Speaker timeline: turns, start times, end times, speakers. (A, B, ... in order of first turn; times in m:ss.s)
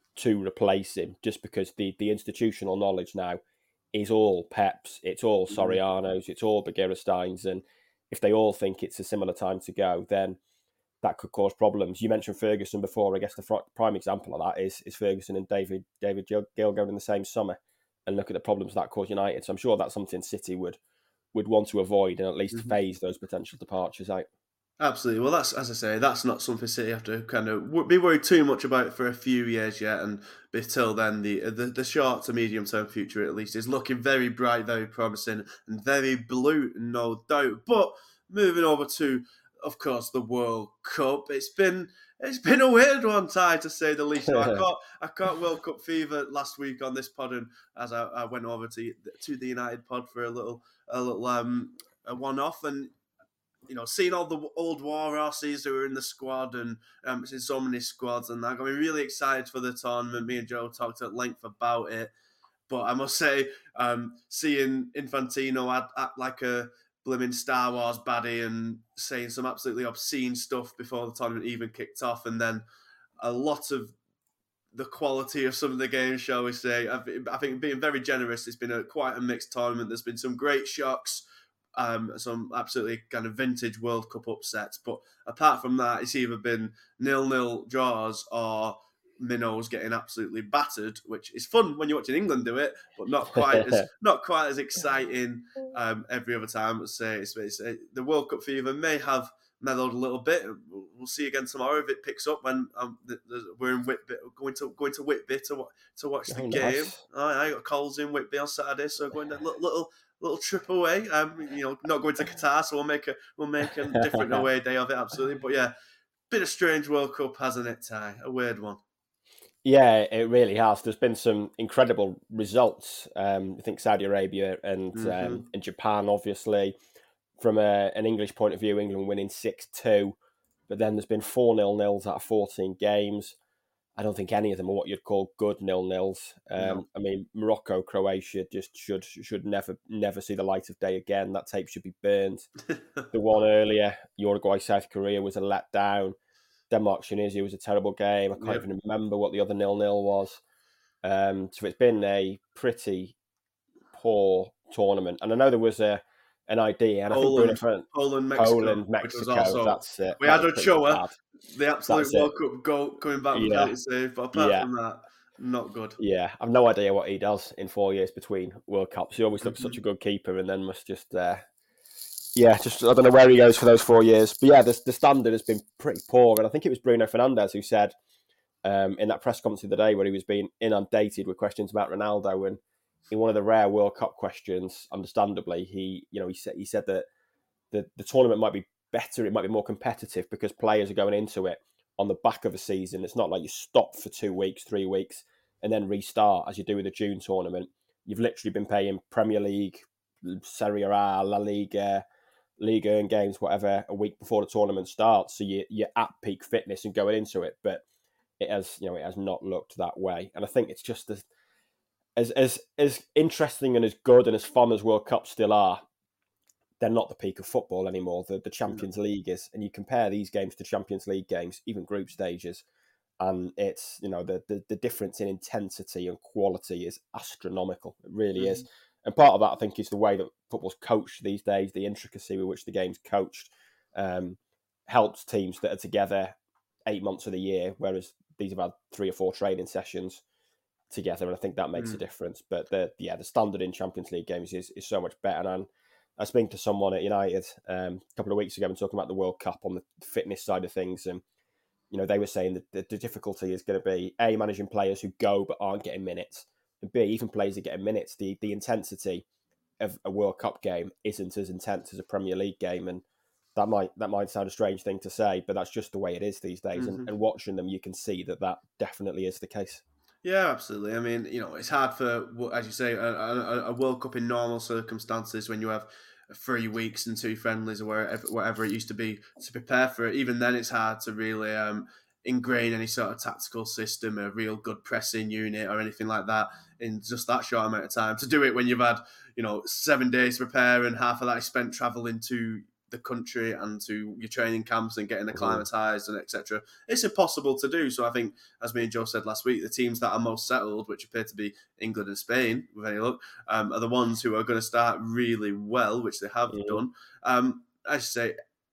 0:00.2-0:03.4 A
0:03.9-0:10.4 A
0:05.5-0:05.8 B
0:11.0-0:20.8 A
0:21.3-0:24.3 A
0:24.8-0:52.9 B
0:44.3-0:44.6 A
0:53.7-1:02.1 B
1:02.7-1:12.6 B
1:13.2-1:13.9 B
1:14.7-1:21.2 B
1:21.8-1:55.7 B
1:33.3-1:33.8 A
1:46.3-1:47.0 A
1:53.9-1:54.4 A
1:56.3-1:58.8 B
1:59.6-2:06.7 A
2:04.9-2:05.4 B
2:07.4-2:10.2 A
2:10.7-2:13.4 A
2:14.0-2:22.5 A
2:16.6-2:16.8 B
2:23.1-2:26.2 A
2:26.7-2:30.4 A
2:28.4-2:28.6 B
2:31.0-2:33.1 A
2:33.9-2:41.1 A
2:37.1-2:46.0 B
2:41.9-2:42.3 A
2:43.3-2:43.7 A
2:44.3-2:44.7 A
2:46.0-2:51.4 A
2:49.4-2:49.8 B
2:52.3-2:57.9 A
2:58.6-3:07.0 A
3:07.7-3:22.0 A
3:22.6-3:27.8 A
3:28.4-3:31.2 A
3:32.2-3:35.8 A
3:36.8-3:42.6 A
3:43.2-3:56.3 A
3:48.4-3:48.6 B
3:56.8-4:00.2 A
4:00.9-4:11.2 A
4:01.8-4:02.0 B
4:11.9-4:19.2 A
4:19.8-4:23.0 A
4:23.6-4:29.8 A
4:26.8-4:27.1 B
4:30.2-5:08.4 B
4:55.3-4:55.6 A
5:06.5-5:06.8 A